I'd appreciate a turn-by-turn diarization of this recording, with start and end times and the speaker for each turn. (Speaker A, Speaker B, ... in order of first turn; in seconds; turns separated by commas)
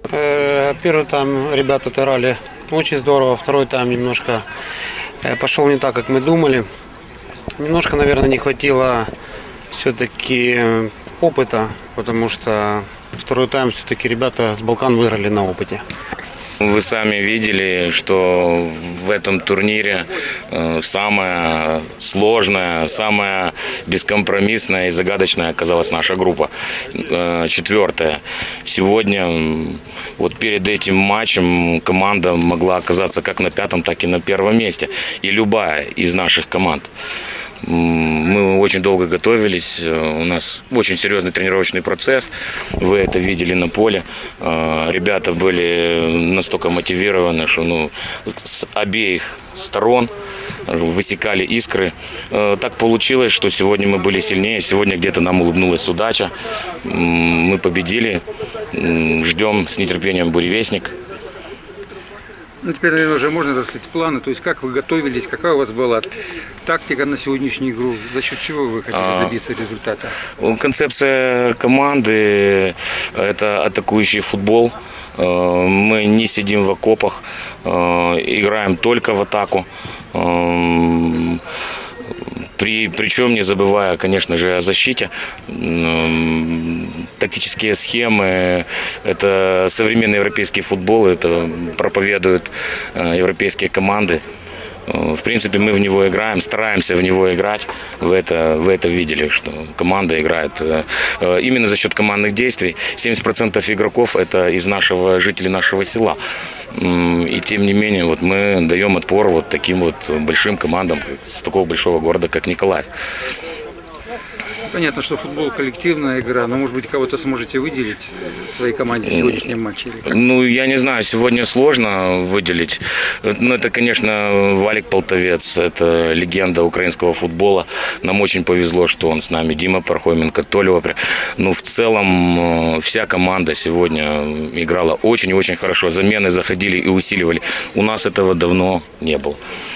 Speaker A: 0.1-4.4, Speaker A: 5.2-6.7, Speaker A: 7.6-9.1, Speaker A: 9.7-15.8, Speaker B: 16.6-36.9, Speaker B: 37.6-50.1, Speaker B: 50.7-56.3, Speaker B: 56.8-58.2, Speaker B: 58.7-60.9, Speaker C: 62.6-66.1, Speaker C: 66.6-70.2, Speaker B: 68.9-69.3, Speaker B: 70.4-81.4, Speaker B: 82.6-94.2, Speaker B: 94.9-106.2, Speaker B: 106.7-112.9, Speaker C: 114.7-120.1, Speaker B: 119.1-119.4, Speaker B: 120.0-139.4